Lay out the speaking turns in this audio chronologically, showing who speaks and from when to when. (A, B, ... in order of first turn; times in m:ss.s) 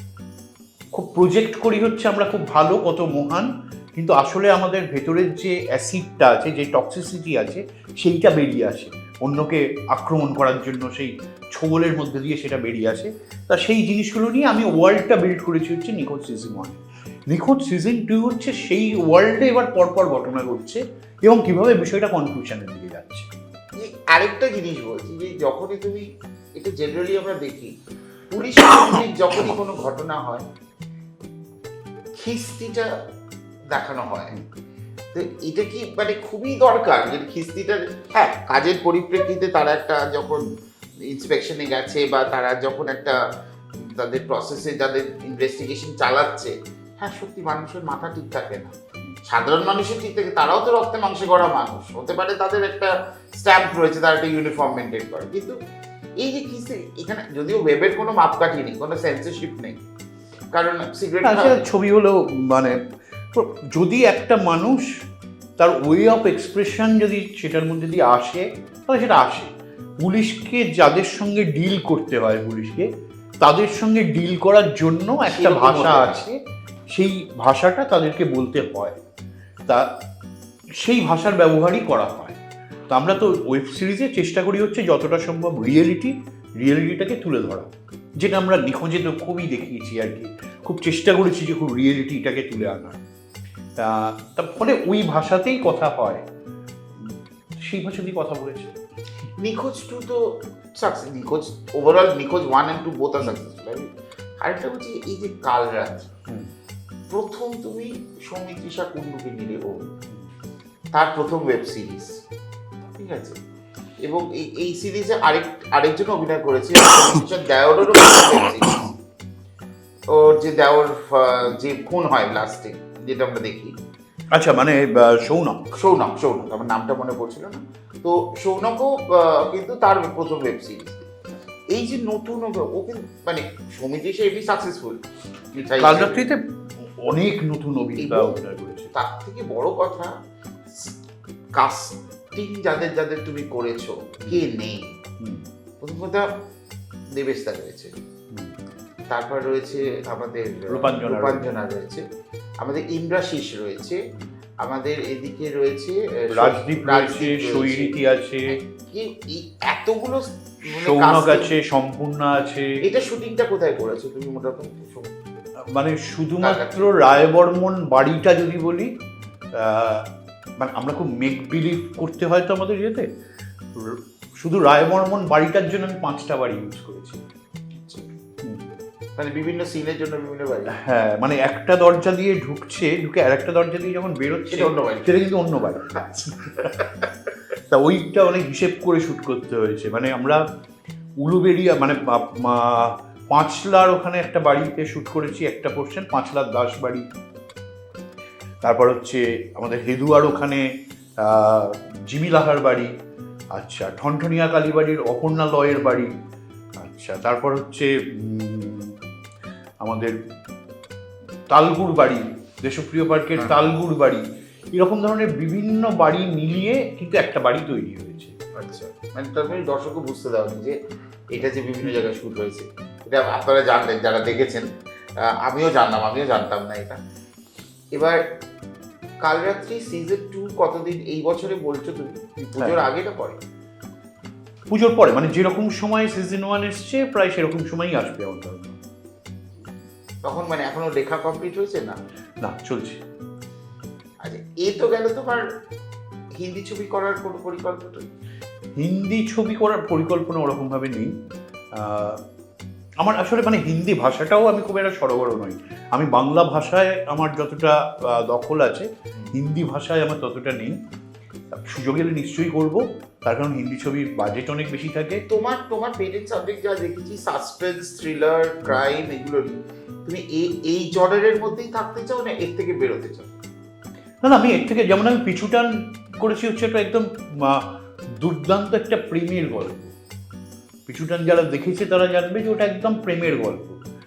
0:00.9-0:23.3 A
0:23.8-0:27.7 B
0:28.3-0:30.4 B
0:32.2-0:32.9 B
0:33.7-0:34.4 B
0:35.1-0:40.5 B
0:41.0-0:43.2 B
0:43.8-0:48.7 B
0:49.2-0:55.6 B
0:56.2-0:59.8 B
1:00.5-1:01.7 B
1:01.2-1:02.8 A
1:03.3-1:04.9 A
1:05.6-1:12.9 A
1:13.4-1:16.4 A
1:15.3-1:16.2 B
1:16.9-1:19.0 A
1:20.8-1:22.4 A
1:22.9-1:27.7 A
1:28.2-1:33.0 A
1:33.8-1:36.2 A
1:37.0-1:38.7 A
1:39.4-1:46.1 B
1:47.1-1:49.9 B
1:50.9-1:52.2 B
1:53.0-1:53.4 B
1:54.0-1:58.9 B
2:00.1-2:03.7 B
2:04.3-2:05.7 A
2:05.7-2:11.0 B
2:11.7-2:15.0 B
2:15.5-2:16.2 B
2:15.8-2:18.9 A
2:18.0-2:18.4 B
2:18.9-2:20.1 B
2:20.7-2:21.0 B
2:21.5-2:24.9 B
2:25.2-2:25.4 A
2:25.8-2:26.3 B
2:27.1-2:27.9 B
2:29.1-2:32.0 B
2:30.7-2:31.6 A
2:32.6-2:34.0 B
2:34.6-2:38.0 B
2:36.3-2:38.6 A
2:38.5-2:41.5 B
2:40.6-2:42.8 A
2:42.8-2:45.1 B
2:45.7-2:48.9 A
2:46.4-2:47.0 B
2:49.6-2:53.1 A
2:53.8-2:57.2 A
2:57.8-2:58.1 B
2:59.2-3:00.8 B
3:00.7-3:06.7 A
3:04.5-3:05.3 B
3:07.7-3:10.4 A
3:11.2-3:17.0 A
3:18.6-3:20.7 A
3:21.2-3:22.9 A
3:23.6-3:26.1 A
3:26.8-3:29.0 A
3:29.8-3:30.1 A
3:31.5-3:38.4 A
3:33.4-3:33.6 B
3:38.5-3:40.8 B
3:41.3-3:44.7 B
3:45.2-3:47.0 B
3:47.9-3:48.2 B
3:49.2-3:53.4 B
3:52.6-3:52.8 A
3:54.7-3:58.8 A
4:00.2-4:02.0 B
4:02.4-4:03.0 A
4:04.2-4:05.4 B
4:06.4-4:08.0 B
4:08.8-4:11.1 A
4:11.8-4:12.2 A
4:13.0-4:20.8 A
4:21.5-4:25.2 A
4:25.3-4:33.3 B
4:34.2-4:39.9 A
4:40.9-4:43.8 A